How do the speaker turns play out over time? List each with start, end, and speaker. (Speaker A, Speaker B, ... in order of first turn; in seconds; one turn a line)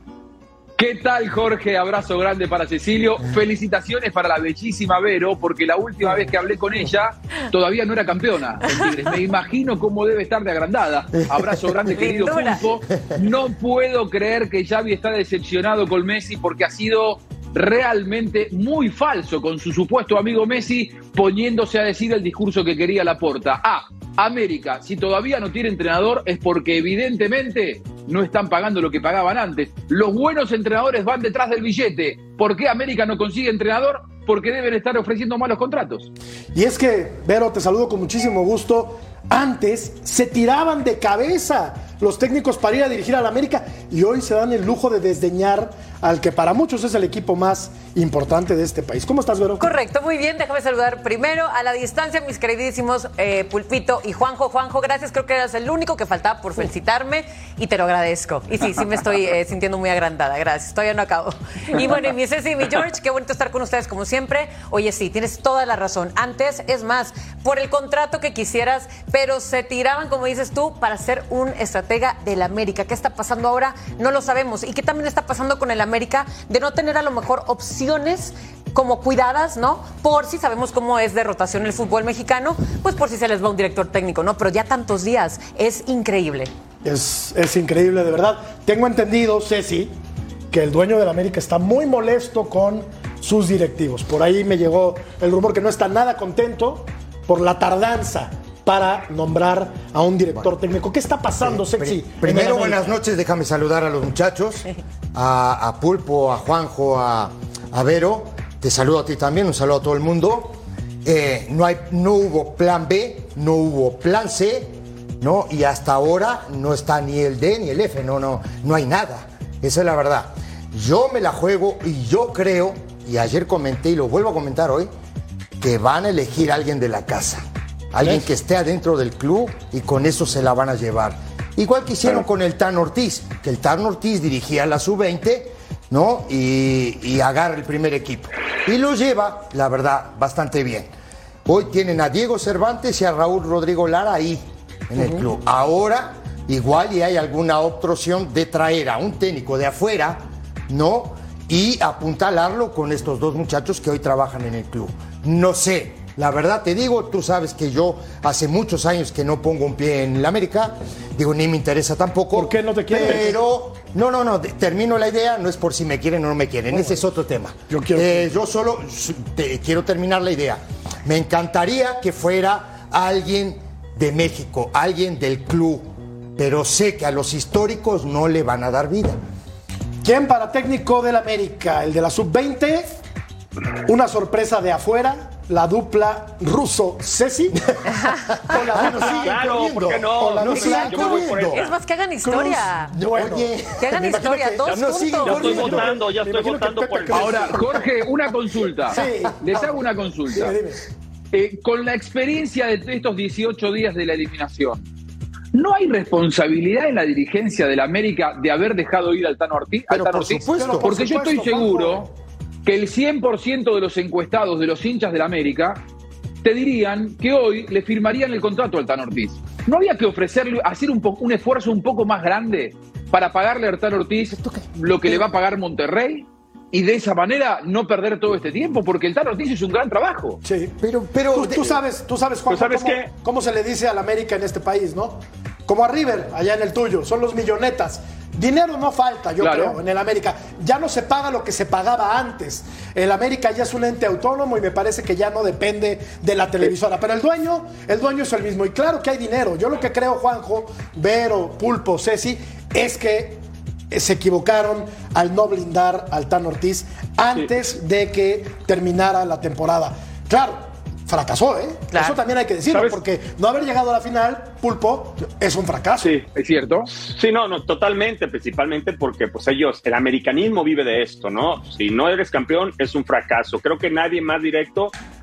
Speaker A: 0.8-36.1
Speaker B: 11.2-12.1
Speaker C: 11.9-12.6
Speaker D: 36.5-49.7
Speaker C: 49.6-86.5
Speaker D: 86.8-89.9
Speaker D: 90.5-103.0
Speaker B: 101.4-124.9
Speaker B: 125.6-140.9
Speaker B: 141.4-179.2
Speaker D: 145.0-145.2
Speaker D: 162.3-163.4
Speaker D: 166.7-167.0
Speaker D: 167.7-168.3
Speaker D: 180.0-182.8
Speaker D: 183.8-187.6
Speaker B: 187.7-191.6
Speaker D: 188.4-191.1
Speaker E: 188.7-191.7
Speaker C: 190.5-192.9
Speaker D: 192.2-193.5
Speaker B: 192.9-196.0
Speaker C: 193.8-195.7
Speaker E: 195.2-197.6
Speaker D: 195.3-197.9
Speaker A: 197.1-200.5
Speaker D: 198.9-199.7
Speaker D: 200.3-200.8
Speaker A: 201.3-204.8
Speaker A: 205.5-212.1
Speaker B: 209.9-210.9
Speaker D: 210.6-212.1
Speaker A: 212.7-215.8
Speaker A: 216.4-230.4
Speaker B: 224.3-224.7
Speaker D: 230.4-230.8
Speaker B: 230.8-231.8
Speaker D: 231.3-266.2
Speaker E: 232.5-233.1
Speaker A: 239.4-239.8
Speaker E: 262.7-263.0
Speaker E: 266.0-266.3
Speaker A: 266.3-266.9
Speaker E: 266.9-274.9